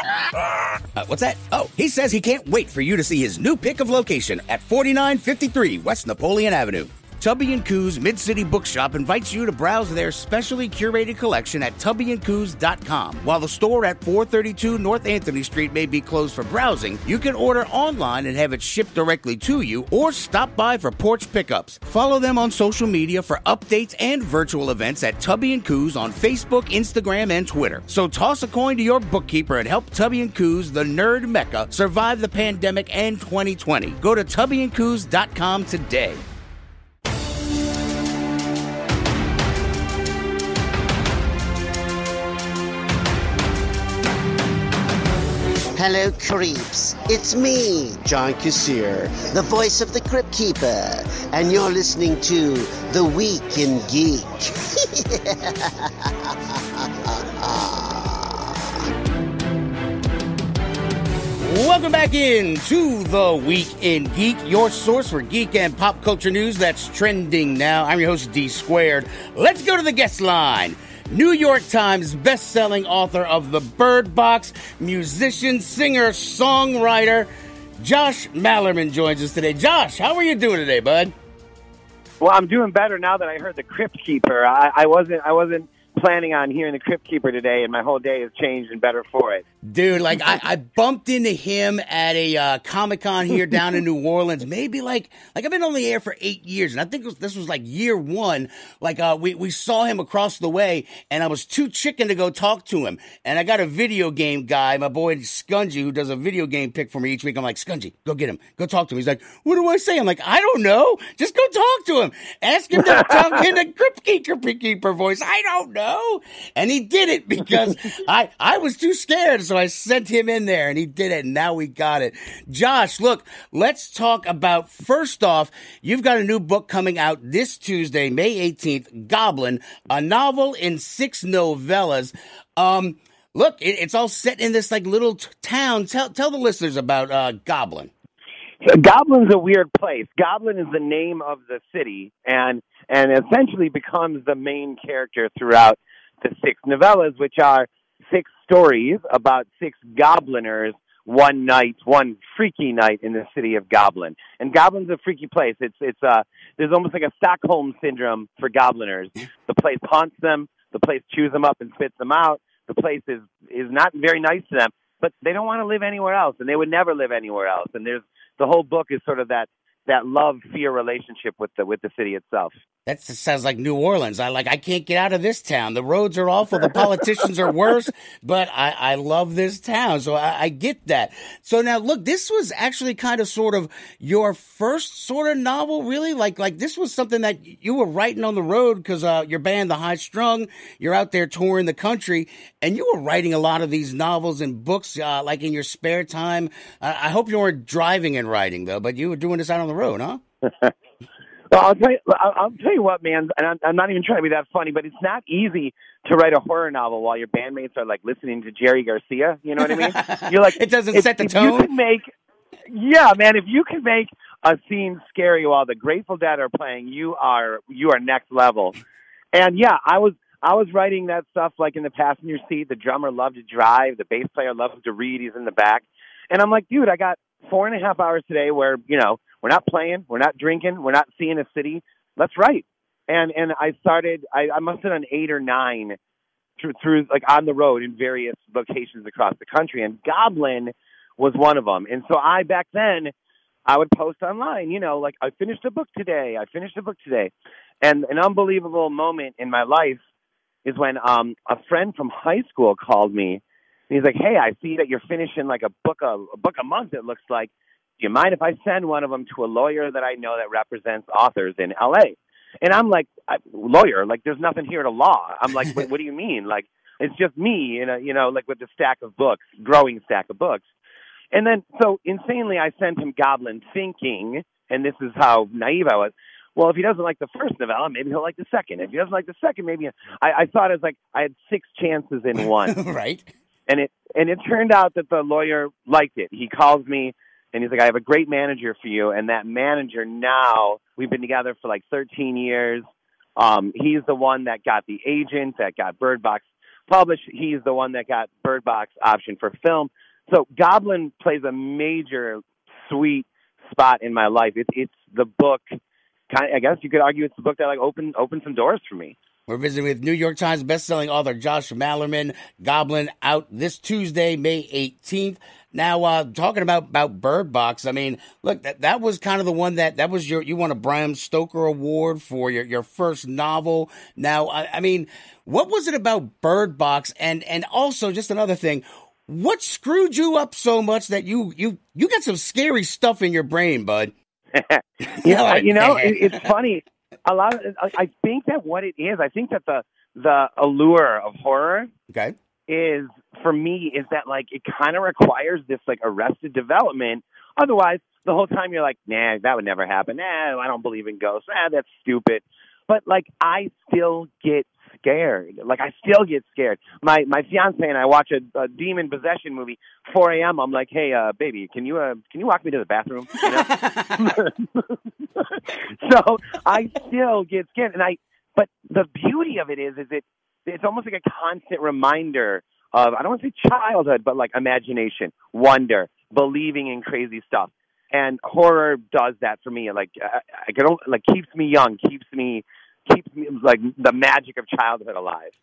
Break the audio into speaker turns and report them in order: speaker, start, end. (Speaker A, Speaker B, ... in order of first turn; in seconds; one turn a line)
Speaker A: 0.9-36.2
Speaker B: 45.7-55.7
Speaker B: 57.1-58.5
Speaker A: 61.4-81.1
Speaker C: 82.2-89.4
Speaker A: 89.6-137.9
Speaker C: 113.0-113.4
Speaker C: 138.6-172.5
Speaker A: 172.8-200.2
Speaker C: 201.5-212.1
Speaker A: 209.7-211.7
Speaker C: 212.7-218.7
Speaker C: 219.3-236.0
Speaker C: 236.6-243.1
Speaker C: 243.7-247.3
Speaker C: 247.8-250.0
Speaker C: 250.6-270.6
Speaker C: 271.3-282.7
Speaker A: 282.7-283.3
Speaker C: 283.7-292.8
Speaker C: 293.4-305.7
Speaker C: 306.3-309.1
Speaker A: 309.5-334.1
Speaker C: 334.5-341.9
Speaker A: 335.1-336.5
Speaker A: 342.1-342.4
Speaker C: 342.7-364.9
Speaker A: 363.6-364.3
Speaker C: 366.0-385.5